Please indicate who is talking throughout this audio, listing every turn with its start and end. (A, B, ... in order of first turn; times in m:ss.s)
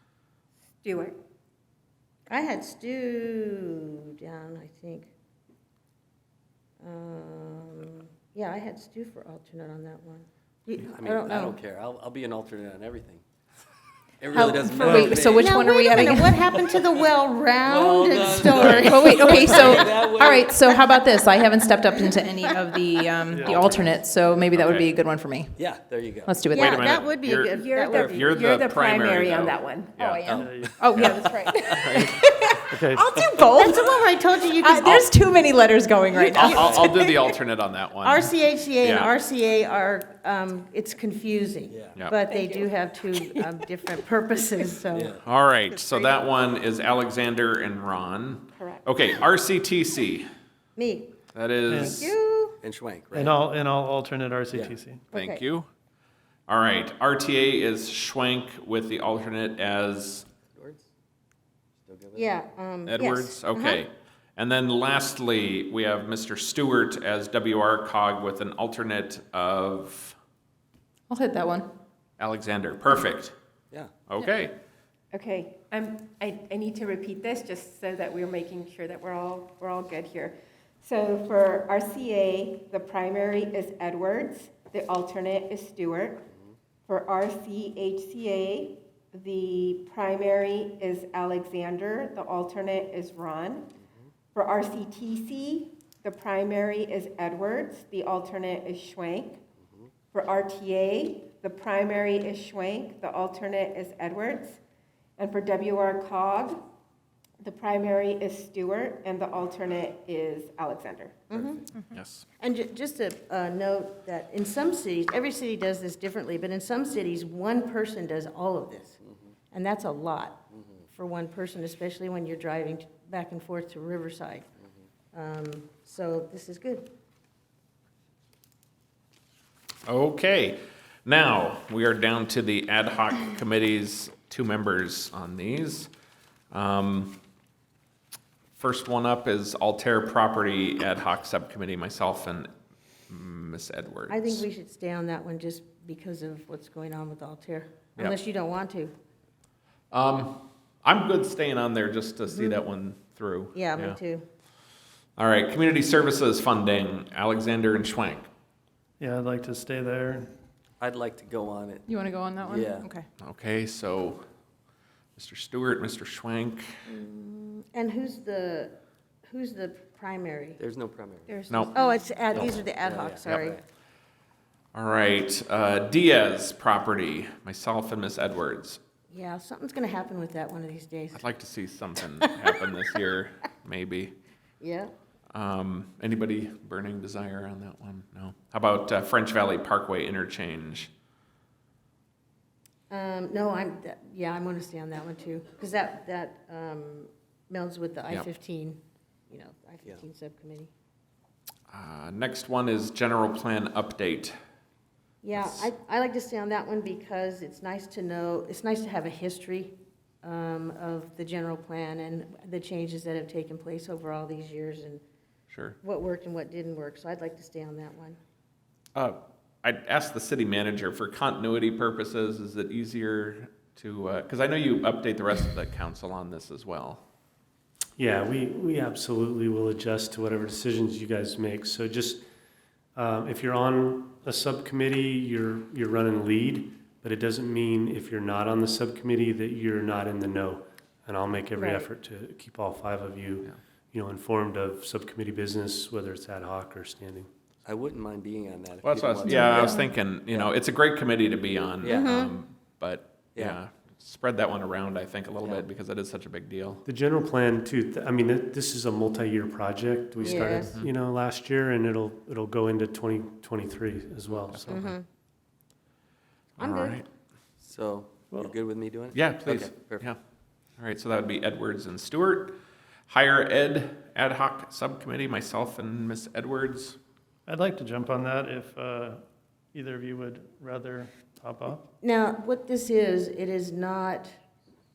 0:00.8-0:01.2 A
0:02.3-0:05.1 B
0:06.8-0:11.6 B
0:10.8-0:13.2 C
0:14.2-0:15.6 C
0:14.3-0:19.9 B
0:14.5-0:15.2 D
0:14.8-0:16.4 E
0:17.6-0:20.7 C
0:18.7-0:25.5 E
0:21.9-0:22.5 B
0:23.3-0:24.0 D
0:23.4-0:23.8 C
0:24.5-0:24.9 F
0:25.6-0:26.4 C
0:26.2-0:26.8 E
0:26.5-0:28.5 B
0:26.5-0:32.2 F
0:27.5-0:30.3 A
0:30.2-0:30.6 C
0:30.3-0:30.9 D
0:30.8-0:31.6 E
0:31.0-0:31.6 A
0:31.4-0:31.9 C
0:31.9-0:35.1 B
0:32.7-0:33.0 D
0:33.0-0:33.8 E
0:34.6-0:37.1 E
0:34.8-0:35.0 F
0:36.1-0:36.9 C
0:36.3-0:38.3 F
0:38.0-0:45.2 B
0:38.8-0:39.1 F
0:42.2-0:43.6 A
0:44.9-0:45.2 C
0:45.2-0:50.2 F
0:45.7-0:46.1 B
0:48.5-0:48.8 A
0:50.8-0:51.1 B
0:51.3-0:52.2 F
0:51.7-0:52.0 D
0:51.7-0:52.6 B
0:52.6-0:53.4 C
0:53.1-0:55.0 D
0:55.1-0:55.7 F
0:55.1-0:55.4 B
0:56.5-1:00.2 F
1:00.5-1:00.9 C
1:01.8-1:02.3 C
1:02.2-1:03.8 B
1:02.9-1:10.2 F
1:11.1-1:11.7 E
1:12.2-1:13.3 F
1:13.7-1:14.0 C
1:14.1-1:14.6 F
1:15.1-1:26.2 A
1:26.8-1:33.7 A
1:34.3-1:39.4 A
1:40.1-1:44.6 A
1:45.2-1:46.6 A
1:47.4-1:51.3 A
1:51.3-1:51.6 B
1:51.3-1:51.6 C
1:51.9-1:52.2 F
1:52.4-1:59.0 B
1:59.5-2:04.4 B
2:05.1-2:06.9 B
2:09.8-2:15.9 F
2:16.5-2:17.2 F
2:18.6-2:22.5 F
2:23.1-2:24.4 F
2:24.1-2:28.9 B
2:29.9-2:34.0 F
2:32.3-2:32.6 B
2:33.5-2:34.2 B
2:35.2-2:38.3 F
2:39.0-2:40.3 D
2:40.8-2:41.8 C
2:41.9-2:43.1 E
2:42.4-2:42.9 C
2:43.2-2:44.2 F
2:45.2-2:46.6 F
2:46.8-2:48.7 B
2:49.3-2:50.6 B
2:50.6-2:51.5 C
2:51.3-2:52.2 A
2:51.5-2:51.7 F
2:51.7-2:53.6 B
2:52.3-2:53.6 C
2:54.7-2:58.8 F
2:59.1-3:01.3 B
3:01.1-3:04.2 F
3:02.2-3:02.5 B
3:04.6-3:04.9 B
3:05.3-3:10.9 F
3:12.9-3:20.7 B
3:21.7-3:24.3 F
3:25.2-3:35.0 B
3:25.3-3:25.7 F
3:35.5-3:35.8 F
3:35.8-3:38.2 B
3:39.0-3:47.0 F
3:48.0-3:52.2 G
3:52.9-4:07.3 G
4:07.6-4:10.5 C
4:08.8-4:16.8 F
4:09.3-4:09.8 E
4:11.8-4:12.2 C
4:11.9-4:12.3 B
4:16.8-4:24.7 G
4:20.2-4:20.5 C
4:20.2-4:20.7 B
4:20.6-4:20.9 F
4:24.3-4:24.9 F
4:24.7-4:25.0 B
4:26.6-4:27.0 B
4:26.6-4:27.0 F
4:27.6-4:30.1 C
4:29.1-4:30.2 F
4:30.8-4:37.0 F
4:37.5-4:39.2 D
4:39.7-4:41.8 D
4:42.0-4:44.4 B